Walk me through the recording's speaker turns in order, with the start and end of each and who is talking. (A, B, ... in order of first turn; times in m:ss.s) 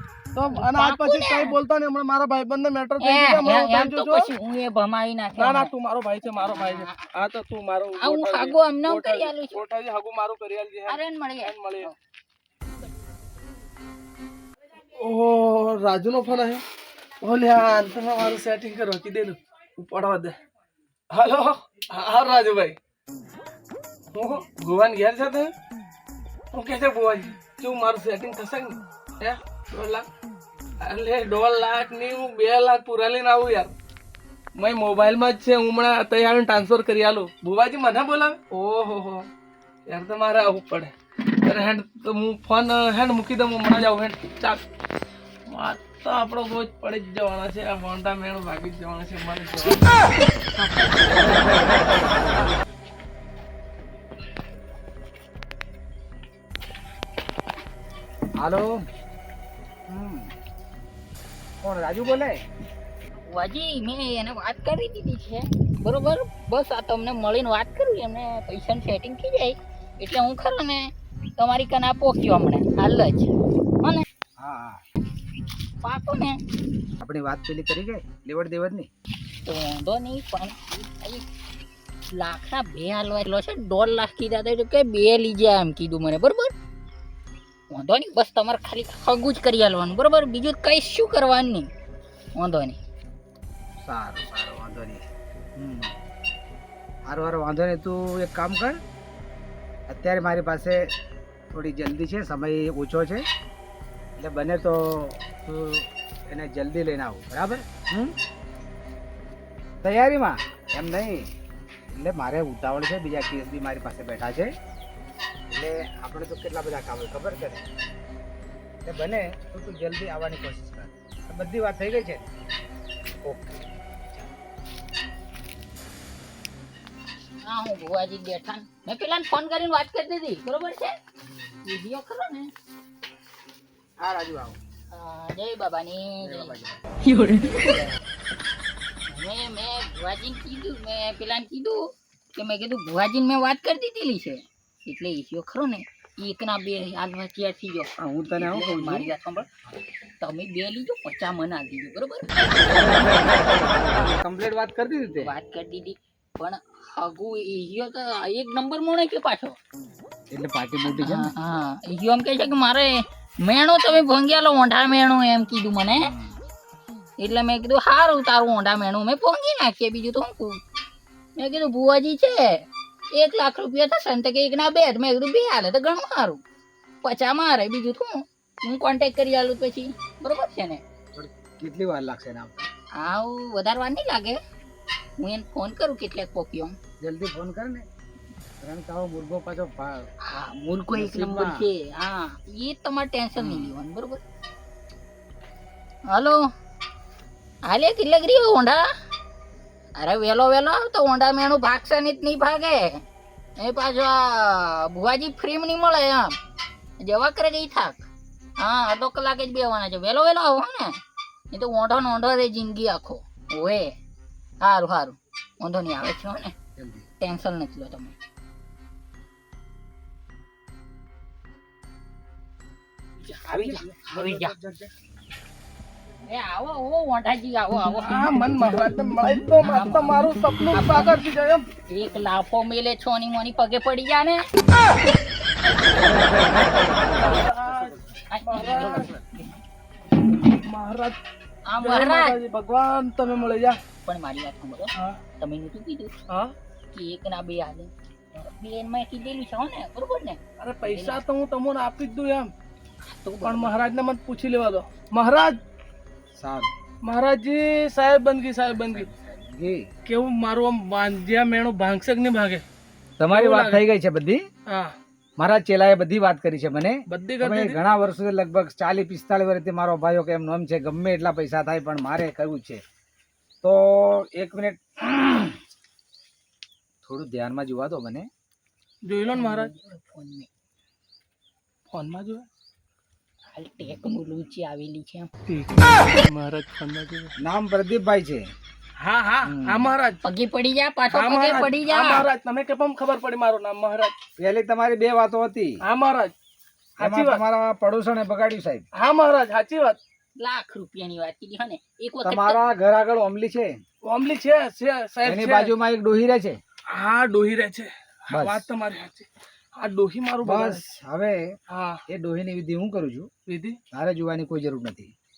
0:00.4-0:04.3 A
0:00.5-0:01.6 B
0:03.0-0:05.7 B
0:05.4-0:11.9 A
0:06.3-0:07.1 B
0:08.0-0:09.6 B
0:10.9-0:12.0 B
0:15.0-0:16.6 A
0:17.2-0:20.4 A
0:21.1-0:22.8 A
0:24.1-0:25.5 A
0:26.5-0:30.1 A
0:30.8-0:33.7 A
0:34.6-0:39.3 A
0:39.9-0:44.6 A
0:45.5-0:49.9 A
0:50.7-0:51.4 A
0:58.4-0:58.8 C
0:59.9-1:00.3 C
1:01.6-1:02.4 C
1:03.3-1:14.0 B
1:14.4-1:14.8 C
1:15.8-1:16.4 B
1:17.0-1:18.9 C
1:19.4-1:21.2 B
1:22.1-1:26.5 B
1:27.7-1:31.7 B
1:32.4-1:32.8 B
1:33.8-1:35.0 C
1:35.6-1:36.0 C
1:37.1-1:38.8 C
1:39.9-1:40.9 C
1:41.5-1:43.3 C
1:44.2-1:48.2 C
1:49.8-1:51.3 C
1:51.9-1:54.5 C
1:55.5-1:57.7 C
1:58.8-2:02.3 C
2:03.2-2:03.7 C
2:07.4-2:11.0 B
2:11.6-2:12.5 B
2:14.0-2:14.6 C
2:14.9-2:16.6 B
2:16.2-2:16.8 C
2:17.1-2:18.0 B
2:19.1-2:21.8 B
2:22.4-2:29.5 B
2:28.0-2:29.1 C
2:30.2-2:33.7 B
2:32.7-2:35.3 C
2:35.2-2:39.6 B
2:40.3-2:41.3 C
2:40.9-2:46.1 B
2:46.0-2:46.4 C
2:47.2-2:50.6 B
2:51.4-2:56.4 B
2:57.0-3:00.8 B
3:01.1-3:02.7 C
3:03.0-3:04.4 B
3:05.2-3:06.8 B
3:07.0-3:07.8 C
3:08.6-3:10.1 C
3:10.2-3:14.2 B
3:10.9-3:11.7 C
3:13.4-3:13.7 C
3:16.1-3:16.4 B
3:17.7-3:18.9 B
3:20.0-3:23.0 B
3:23.6-3:26.4 B
3:27.0-3:28.0 B
3:28.6-3:31.0 B
3:31.5-3:34.0 B
3:34.6-3:36.5 B
3:36.8-3:37.1 C
3:37.2-3:38.2 B
3:43.2-3:44.6 B
3:43.5-3:44.9 C
3:46.3-3:48.3 B
3:48.0-3:51.6 A
3:49.6-3:50.2 B
3:50.7-3:51.2 B
3:51.9-3:54.4 B
3:56.0-3:58.0 C
3:57.2-3:59.1 A
3:58.3-3:59.6 B
4:00.6-4:01.2 A
4:01.7-4:02.4 B
4:01.8-4:03.8 A
4:04.0-4:06.1 B
4:06.9-4:11.2 B
4:10.6-4:12.5 A
4:13.0-4:13.8 B
4:13.4-4:15.6 A
4:16.4-4:16.7 C
4:17.0-4:19.1 A
4:18.7-4:19.8 C
4:20.1-4:22.6 A
4:23.2-4:24.4 C
4:23.3-4:23.8 A
4:24.7-4:24.9 A
4:25.4-4:32.8 C
4:27.1-4:27.8 A
4:33.6-4:35.6 C
4:37.0-4:38.3 C
4:39.0-4:39.7 A
4:39.3-4:40.5 B
4:41.9-4:42.5 A
4:43.5-4:45.3 B
4:45.5-4:47.3 A
4:47.4-4:48.4 C
4:49.0-4:50.2 A
4:49.4-4:49.9 C
4:50.2-4:52.3 B
4:51.1-4:54.2 A
4:54.4-4:55.8 C
4:55.8-4:56.3 A
4:57.0-4:57.4 A
4:57.0-4:58.8 C
4:59.0-5:00.0 A
5:00.4-5:02.6 B
5:02.2-5:03.8 C
5:04.0-5:05.7 A
5:05.2-5:06.6 C
5:06.9-5:09.3 A
5:08.3-5:08.7 C
5:09.8-5:10.8 A
5:10.4-5:11.5 C
5:11.7-5:12.0 A
5:12.1-5:13.3 C
5:13.5-5:13.8 A
5:13.9-5:15.1 C